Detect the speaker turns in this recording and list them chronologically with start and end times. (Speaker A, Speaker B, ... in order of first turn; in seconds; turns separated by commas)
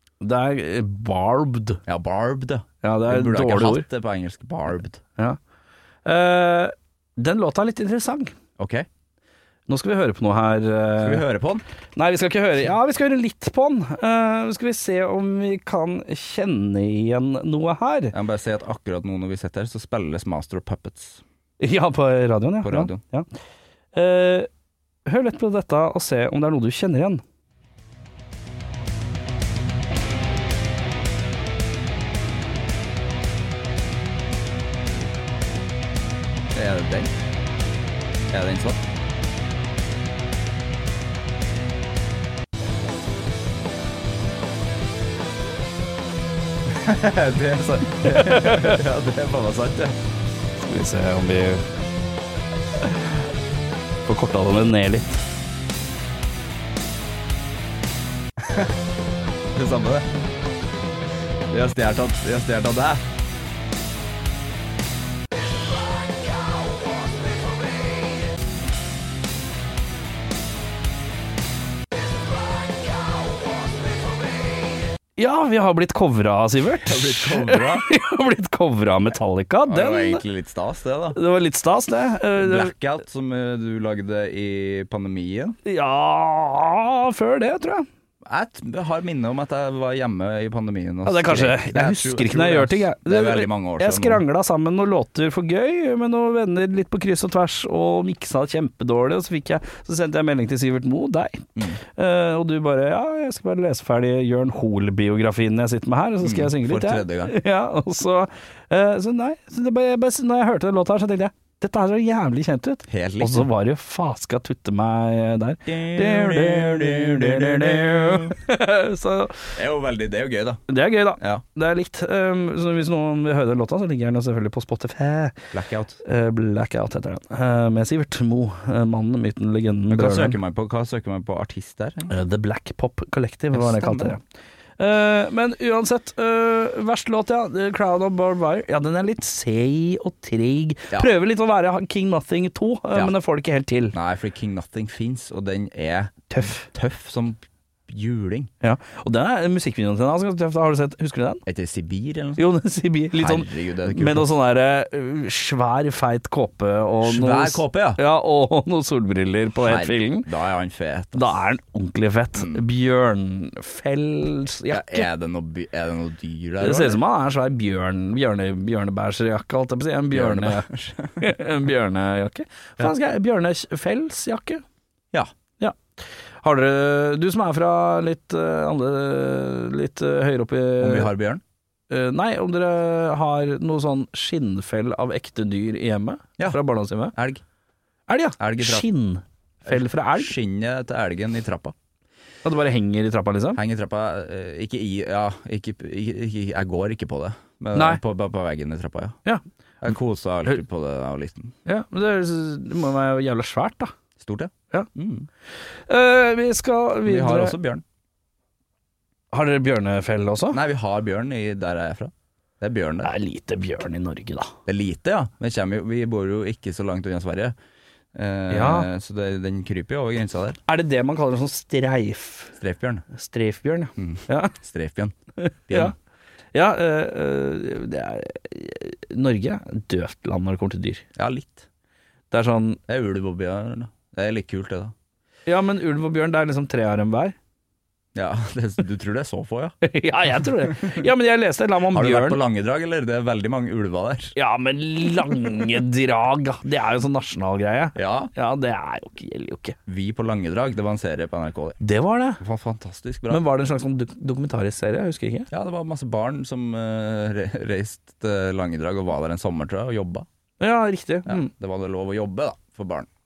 Speaker A: 0.2-1.8, Speaker B: 1.9-5.0, Speaker A: 2.8-3.9, Speaker A: 6.0-8.3, Speaker B: 8.6-8.9, Speaker A: 9.7-11.2, Speaker B: 11.0-11.6, Speaker A: 11.9-18.1, Speaker B: 18.1-21.2, Speaker A: 21.6-23.3, Speaker B: 22.6-23.0, Speaker A: 23.9-24.5, Speaker A: 25.1-27.2, Speaker B: 36.5-37.1, Speaker B: 38.3-38.8, Speaker B: 46.6-50.0, Speaker A: 48.0-48.8, Speaker A: 50.6-51.6, Speaker A: 52.8-53.1, Speaker A: 54.0-55.2, Speaker B: 58.4-58.7, Speaker B: 59.5-60.1, Speaker B: 61.5-63.0, Speaker A: 75.2-80.2, Speaker B: 76.8-77.9, Speaker B: 79.7-81.2, Speaker A: 81.1-82.7, Speaker B: 82.3-85.6, Speaker A: 85.6-87.8, Speaker B: 88.2-94.2, Speaker A: 91.0-119.5, Speaker B: 106.2-107.3, Speaker B: 112.9-113.5, Speaker B: 115.7-118.4, Speaker B: 119.5-120.7, Speaker A: 120.7-125.4, Speaker B: 125.5-126.0, Speaker A: 126.0-130.3, Speaker B: 129.9-132.1, Speaker A: 132.1-134.2, Speaker B: 133.5-134.1, Speaker A: 134.8-143.9, Speaker B: 143.9-148.5, Speaker A: 146.3-146.7, Speaker A: 148.6-151.4, Speaker B: 151.4-152.4, Speaker A: 152.4-160.3, Speaker B: 153.2-154.3, Speaker B: 157.0-158.0, Speaker B: 159.6-161.4, Speaker A: 161.1-165.1, Speaker B: 162.3-162.6, Speaker B: 164.7-167.0, Speaker A: 166.6-170.7, Speaker B: 170.1-171.3, Speaker A: 171.2-174.6, Speaker A: 176.4-181.1, Speaker B: 180.8-181.4, Speaker A: 181.9-187.1, Speaker B: 186.4-187.4, Speaker A: 188.1-190.3, Speaker B: 188.4-188.9, Speaker B: 189.7-191.7, Speaker A: 192.4-193.6, Speaker B: 193.6-199.2, Speaker A: 197.7-198.0, Speaker B: 199.8-201.5, Speaker A: 201.6-203.9, Speaker B: 204.2-205.3, Speaker A: 205.9-207.6, Speaker B: 207.0-207.8, Speaker A: 209.3-210.6, Speaker B: 210.5-213.1, Speaker A: 213.0-214.5, Speaker B: 214.7-217.5, Speaker B: 218.1-220.6, Speaker A: 218.5-218.9, Speaker A: 220.7-222.6, Speaker B: 222.6-223.1, Speaker A: 223.1-224.5, Speaker B: 224.0-225.1, Speaker A: 225.4-225.9, Speaker B: 225.7-225.9, Speaker A: 226.5-231.0, Speaker B: 231.2-231.7, Speaker A: 232.3-232.8, Speaker B: 232.9-234.9, Speaker A: 235.5-237.3, Speaker B: 238.1-239.8, Speaker A: 239.8-242.4, Speaker B: 240.6-241.1, Speaker B: 241.9-244.3, Speaker A: 244.3-249.8, Speaker B: 247.9-248.3, Speaker B: 249.9-251.8, Speaker A: 251.8-252.4, Speaker B: 252.4-253.4, Speaker A: 253.3-255.5, Speaker B: 255.5-260.2, Speaker A: 260.6-261.5, Speaker B: 261.2-263.1